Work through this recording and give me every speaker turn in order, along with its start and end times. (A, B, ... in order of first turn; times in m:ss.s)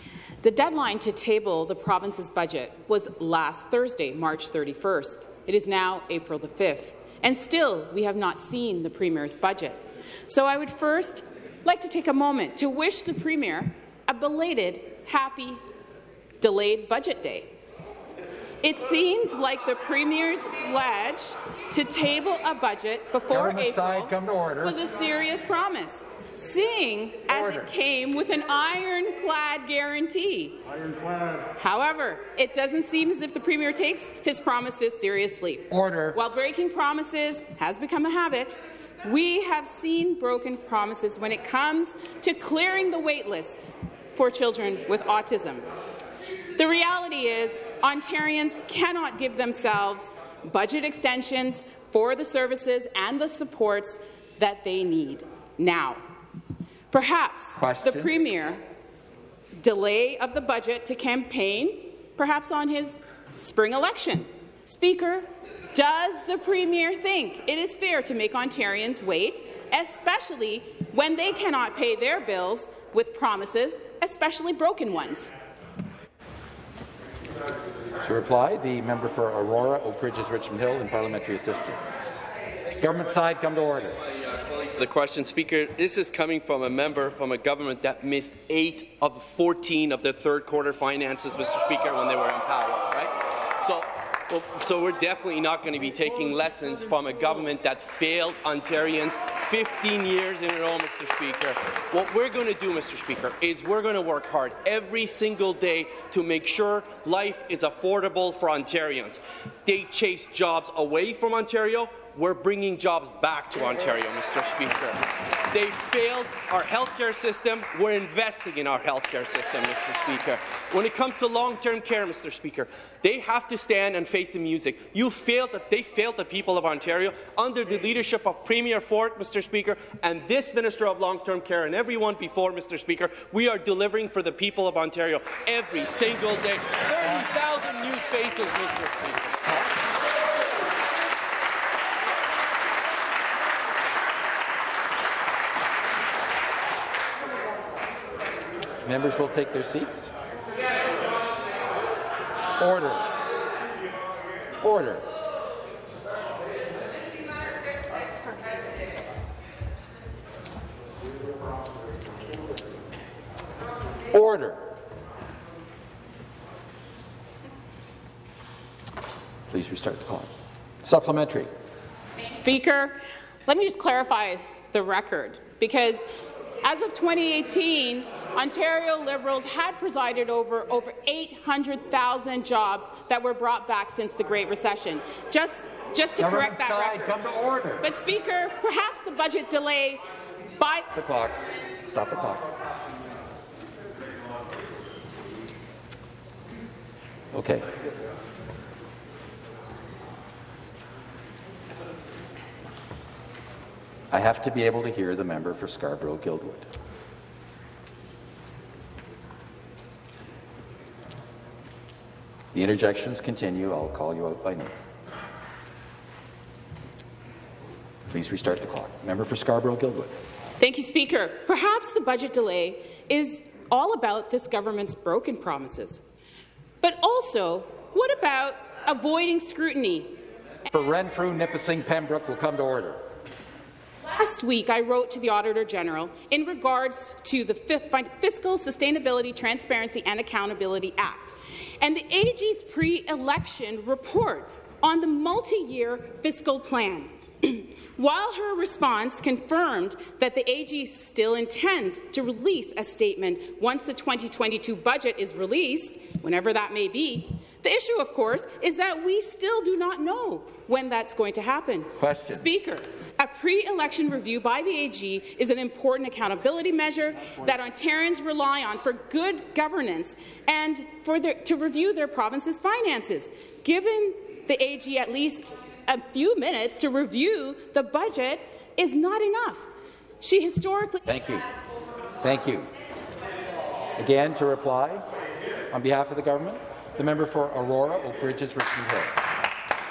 0:00.4-0:15.6 A
0:16.4-0:17.5 A
0:18.6-0:30.6 A
0:23.3-0:24.8 B
0:27.3-0:27.7 B
0:31.5-0:43.6 A
0:35.7-0:36.2 B
0:44.1-0:45.7 A
0:46.6-0:56.0 A
0:56.9-0:58.6 A
0:57.6-0:58.1 B
0:59.6-1:15.3 A
1:18.0-1:21.8 B
1:22.8-1:24.0 B
1:24.4-2:19.4 C
2:28.8-2:30.1 B
2:32.6-2:33.0 B
2:34.6-2:35.0 B
2:44.1-2:44.7 B
2:49.5-2:50.3 B
2:50.8-2:51.5 B
2:52.3-2:56.0 A
2:56.6-3:07.2 A
3:06.2-3:07.9 B
3:07.8-3:10.0 A
3:10.6-3:10.9 A
3:10.9-3:12.5 B
3:17.3-3:17.7 B
3:24.1-3:26.7 B
3:32.5-3:34.7 B
3:38.1-3:40.1 B
3:40.6-3:46.0 A
3:46.8-3:50.2 A
3:50.7-3:53.0 B
3:54.1-4:39.7 A
4:21.9-4:22.4 B
4:40.2-4:41.0 A
4:41.0-4:41.4 B
4:42.2-4:42.7 B
4:44.0-4:45.1 B
4:45.7-4:49.2 B